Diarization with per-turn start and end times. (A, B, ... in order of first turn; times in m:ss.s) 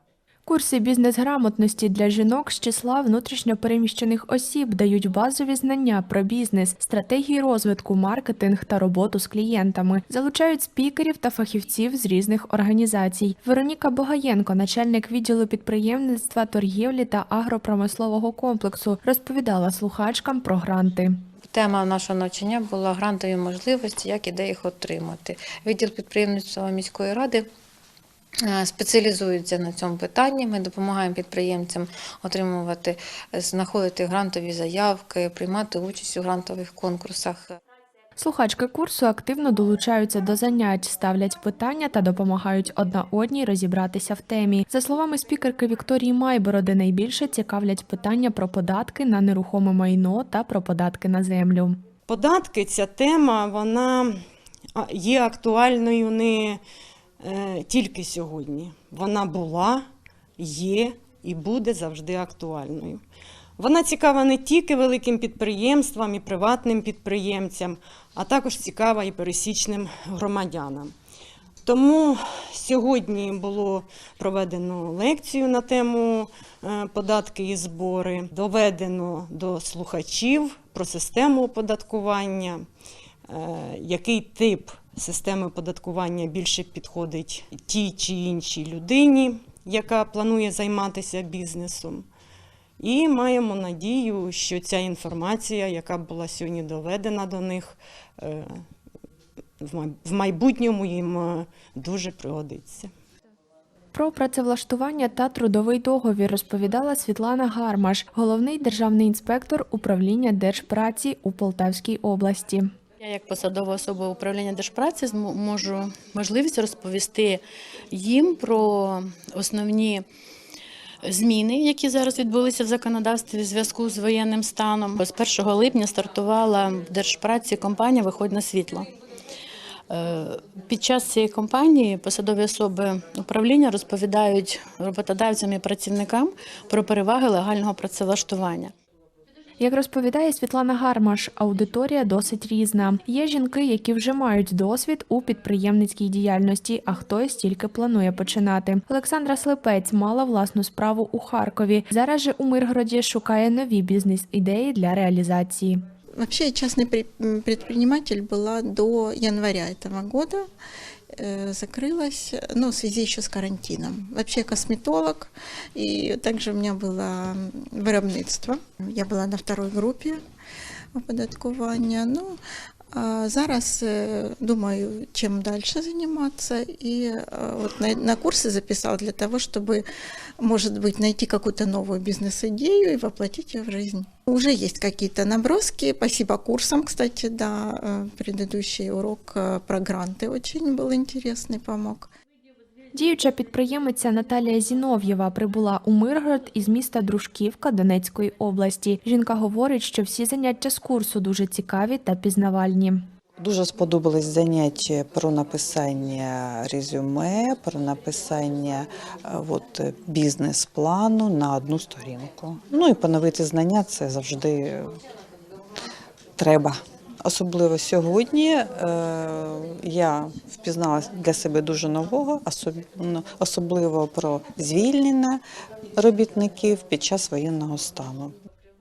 0:00.4-0:21.1 A
0:21.5-0:27.4 B
0:28.5-0:37.6 B
0:38.2-0:51.8 A
0:52.1-0:54.2 C
0:54.8-0:56.6 C
0:57.2-0:59.8 C
1:00.4-1:03.0 C
1:03.6-1:10.9 C
1:11.6-1:22.6 C
1:23.3-1:32.1 C
1:32.8-1:38.6 C
1:39.6-1:42.9 C
1:43.9-1:52.7 A
1:53.0-2:00.0 D
2:01.0-2:08.9 D
2:09.9-2:18.7 D
2:19.6-2:35.8 A
2:36.2-2:40.4 E
2:41.2-2:50.2 E
2:50.9-2:52.4 E
2:52.9-2:59.8 E
3:00.4-3:12.1 E
3:12.9-3:23.0 A
3:23.4-3:34.9 F
3:36.4-3:45.4 F
3:46.0-3:48.3 F